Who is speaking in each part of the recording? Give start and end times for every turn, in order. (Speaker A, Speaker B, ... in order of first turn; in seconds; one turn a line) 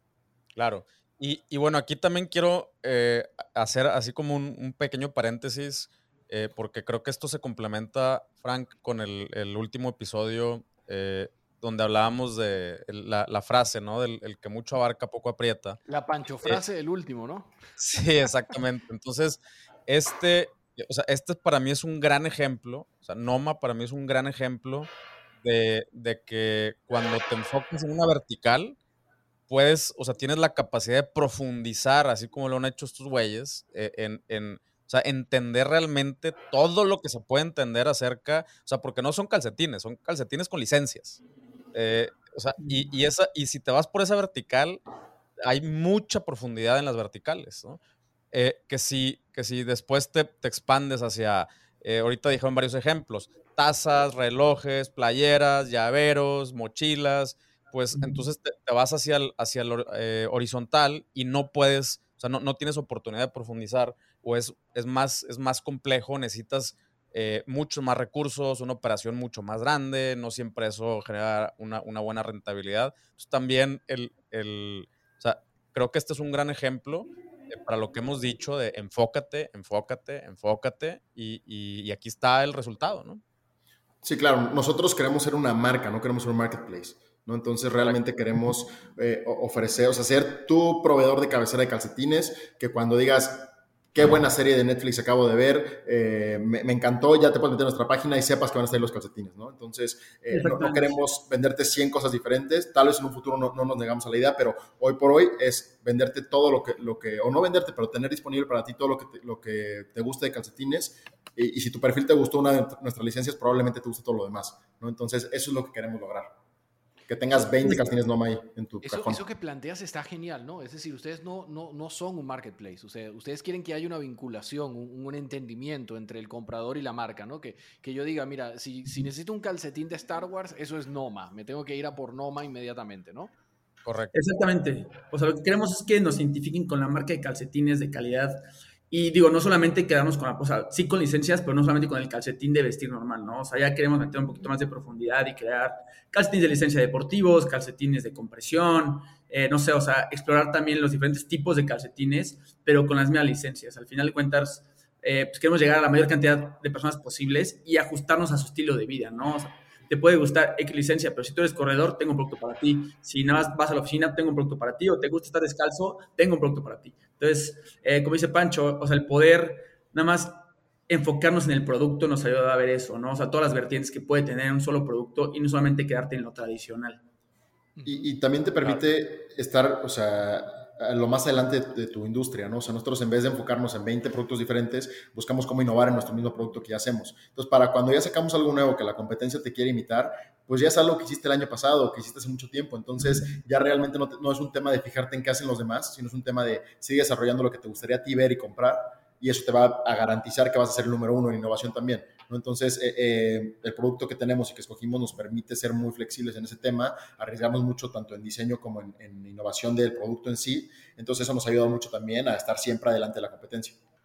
Speaker A: 0.6-15.8
Speaker B: 15.9-17.5
Speaker A: 17.8-24.9
Speaker A: 25.4-28.8
Speaker A: 29.5-41.2
Speaker A: 41.7-44.8
Speaker A: 45.4-47.8
Speaker A: 48.3-83.2
Speaker C: 57.9-58.2
Speaker D: 84.0-116.3
Speaker C: 100.3-101.0
Speaker D: 117.1-119.2
Speaker B: 118.8-133.3
Speaker A: 133.8-134.1
Speaker C: 134.1-177.0
Speaker B: 177.8-178.1
Speaker D: 177.9-213.8